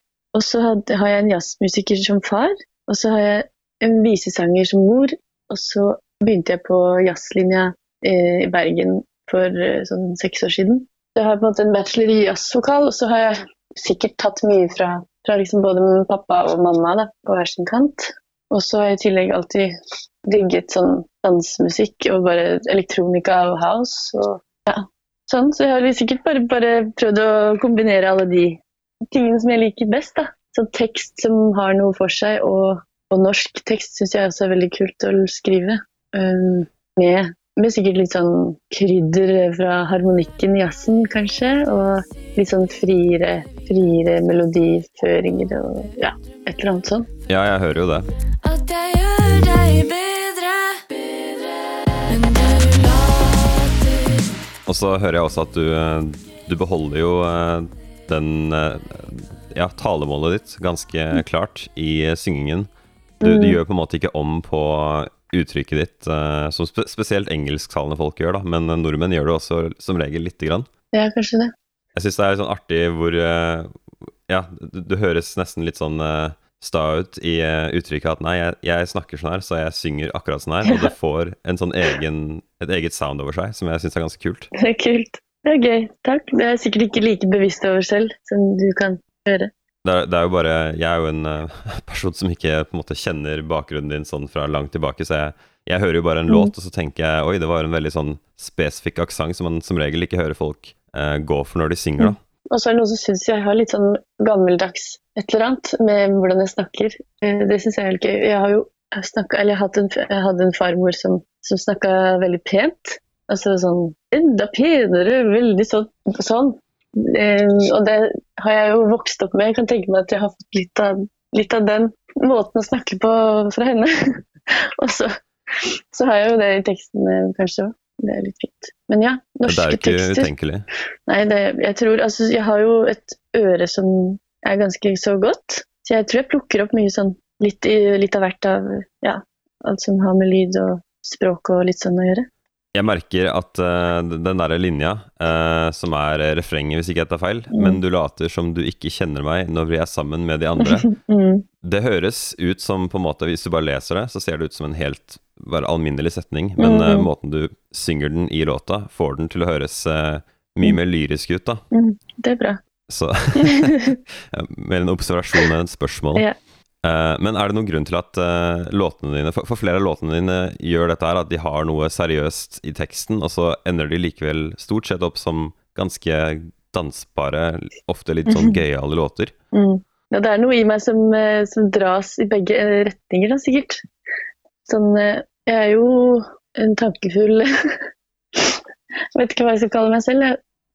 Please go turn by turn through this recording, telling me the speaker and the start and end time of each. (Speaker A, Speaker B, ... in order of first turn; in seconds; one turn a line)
Speaker A: 0.3-19.7
Speaker A: 20.3-47.1
Speaker B: 47.3-48.1
Speaker C: 48.4-54.3
Speaker B: 54.7-62.7
Speaker A: 63.2-63.6
Speaker B: 63.2-70.7
Speaker A: 70.9-71.5
Speaker B: 71.9-84.5
Speaker A: 84.5-89.5
Speaker B: 89.8-102.2
Speaker A: 96.3-96.5
Speaker A: 102.0-124.2
Speaker A: 124.8-130.3
Speaker B: 129.4-130.7
Speaker A: 131.1-142.2
Speaker B: 142.7-150.9
Speaker A: 147.5-147.8
Speaker A: 150.6-151.4
Speaker B: 151.6-161.6
Speaker A: 156.6-157.1
Speaker A: 161.7-162.6
Speaker B: 162.9-166.2
Speaker A: 163.4-164.0
Speaker B: 166.8-179.3
Speaker A: 178.2-178.6
Speaker A: 179.5-183.8
Speaker A: 184.7-187.5
Speaker A: 189.1-190.4